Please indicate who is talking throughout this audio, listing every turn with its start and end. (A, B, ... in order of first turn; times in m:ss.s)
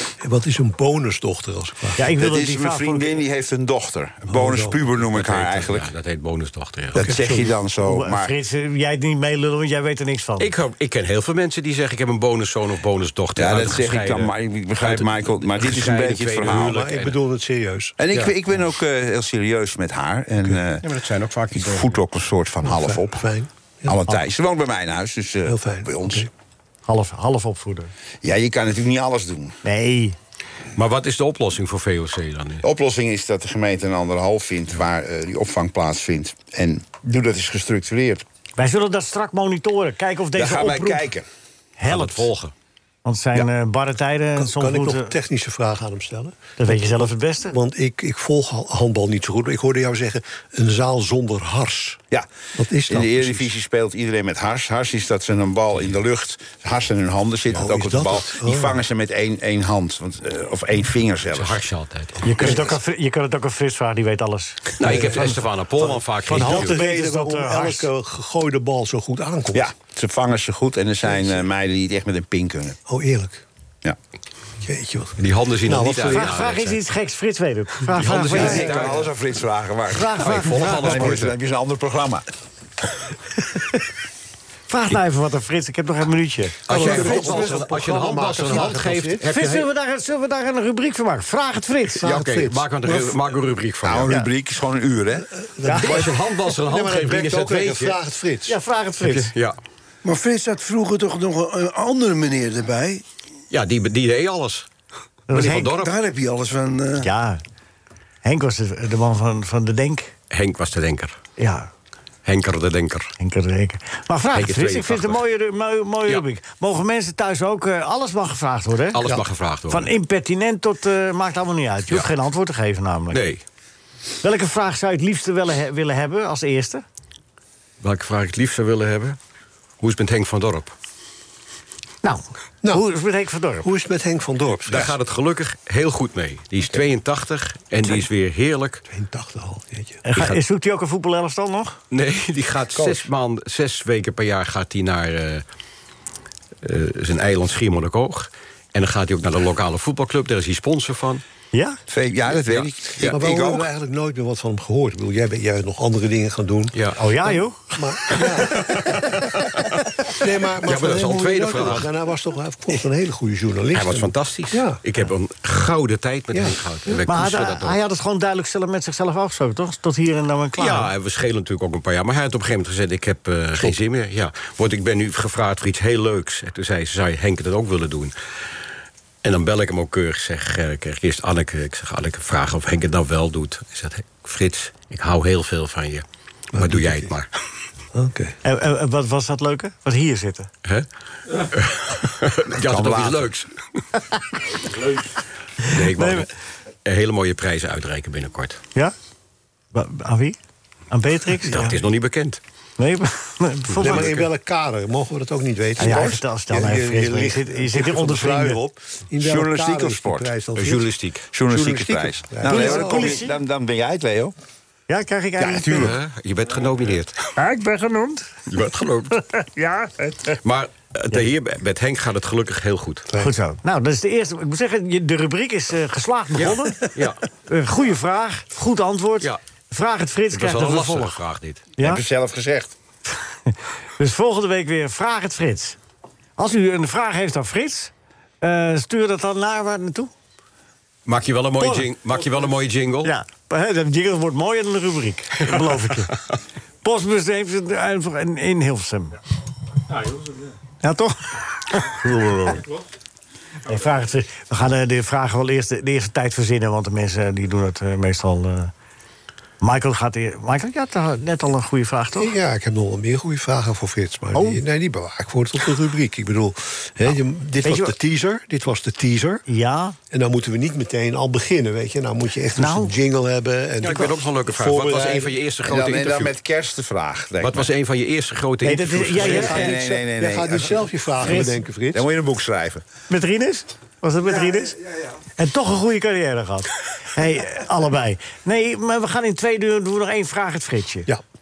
0:00.2-0:02.0 A
0:02.0-0:03.2 B
0:02.1-0:05.9 C
0:04.3-0:04.8 A
0:05.0-0:07.1 D
0:07.0-0:08.3 C
0:07.0-0:07.3 A
0:07.3-0:10.5 B
0:10.4-0:17.2 D
0:13.4-0:16.8 C
0:16.4-0:18.0 A
0:18.0-0:20.9 C
0:20.6-0:22.0 D
0:21.5-0:23.2 C
0:22.6-0:24.0 A
0:23.8-0:26.3 C
0:25.5-0:26.3 A
0:26.9-0:27.9 B
0:28.2-0:29.6 C
0:29.6-0:30.2 B
0:30.8-0:32.6 D
0:32.6-0:38.2 C
0:38.6-0:41.1 B
0:40.3-0:41.3 C
0:41.8-0:42.3 B
0:41.8-0:42.5 D
0:43.0-0:45.2 B
0:44.4-0:52.0 A
0:46.6-0:47.6 B
0:52.6-0:53.5 A
0:52.9-1:01.6 C
0:57.5-0:58.8 A
1:01.3-1:02.4 D
1:02.2-1:05.4 B
1:04.8-1:06.8 D
1:04.8-1:09.7 A
1:06.3-1:07.9 B
1:09.5-1:12.8 C
1:12.9-1:13.4 A
1:14.6-1:16.3 A
1:15.2-1:16.8 D
1:16.1-1:18.8 B
1:17.9-1:19.1 D
1:18.2-1:22.2 C
1:19.9-1:21.2 B
1:20.2-1:21.3 D
1:24.7-1:27.5 B
1:26.7-1:29.3 A
1:26.7-1:29.7 D
1:29.3-1:32.0 B
1:32.0-1:33.2 A
1:32.0-1:34.1 D
1:33.8-1:35.3 C
1:35.5-1:38.6 A
1:35.6-1:36.0 B
1:35.8-1:38.0 D
1:38.5-1:39.3 B
1:39.0-1:39.6 D
1:40.0-1:43.0 E
1:43.5-1:44.7 D
1:45.3-1:45.7 B
1:45.3-1:45.9 D
1:45.8-1:47.1 E
1:47.0-1:47.4 B
1:48.2-1:50.1 B
1:50.3-1:51.2 D
1:51.4-1:51.7 B
1:52.2-1:53.1 D
1:53.2-2:03.2 B
1:54.3-1:55.2 D
1:58.9-1:59.9 D
2:03.1-2:03.4 D
2:04.2-2:06.8 B
2:07.8-2:09.2 D
2:09.8-2:10.7 D
2:12.0-2:13.7 B
2:13.6-2:15.0 A
2:14.7-2:18.8 D
2:18.9-2:20.0 A
2:20.0-2:21.8 B
2:21.9-2:25.4 D
2:26.6-2:31.2 D
2:31.5-2:31.8 B
2:31.9-2:33.7 C
2:32.5-2:33.2 D
2:33.0-2:36.8 A
2:36.7-2:37.0 D
2:37.0-2:38.3 B
2:37.8-2:39.3 A
2:40.1-2:44.8 A
2:40.2-2:41.9 D
2:43.7-2:47.8 D
2:46.3-2:46.6 A
2:47.1-2:50.9 B
2:50.6-2:58.1 D
2:59.2-3:07.3 D
3:06.5-3:07.1 A
3:07.9-3:08.4 A
3:08.4-3:10.5 B
3:10.6-3:13.5 D
3:12.5-3:13.3 C
3:15.6-3:16.3 D
3:15.7-3:16.3 B
3:16.8-3:18.6 D
3:19.7-3:20.4 B
3:20.9-3:21.8 B
3:21.5-3:22.4 D
3:22.8-3:24.2 B
3:23.8-3:24.3 D
3:23.8-3:30.9 A
3:25.8-3:26.2 C
3:25.8-3:28.6 B
3:29.2-3:30.3 C
3:30.6-3:31.3 D
3:31.3-3:34.3 C
3:31.5-3:33.3 A
3:32.5-3:33.3 B
3:34.9-3:35.9 B
3:35.4-3:35.9 C
3:35.8-3:37.3 D
3:37.4-3:38.3 B
3:38.5-3:39.2 D
3:39.1-3:40.4 B
3:40.4-3:43.1 D
3:43.2-3:51.2 B
3:46.4-3:47.2 D
3:50.3-3:51.6 D
3:51.8-3:52.7 C
3:54.0-3:55.8 B
3:56.4-4:00.1 B
4:01.1-4:03.1 D
4:01.6-4:01.9 B
4:03.0-4:06.1 B
4:06.8-4:09.2 B
4:10.8-4:12.0 B
4:13.7-4:18.7 B
4:19.6-4:22.3 B
4:22.2-4:29.4 A
4:24.3-4:24.6 B
4:27.6-4:28.0 B
4:29.5-4:30.0 B
4:30.1-4:35.4 A
4:32.6-4:33.0 B
4:33.8-4:36.3 D
4:35.6-4:37.7 C
4:37.4-4:39.7 D
4:38.6-4:39.8 B
4:39.2-4:42.8 C
4:39.2-4:42.0 A
4:41.3-4:41.5 B
4:43.1-4:44.8 B
4:45.4-4:51.1 B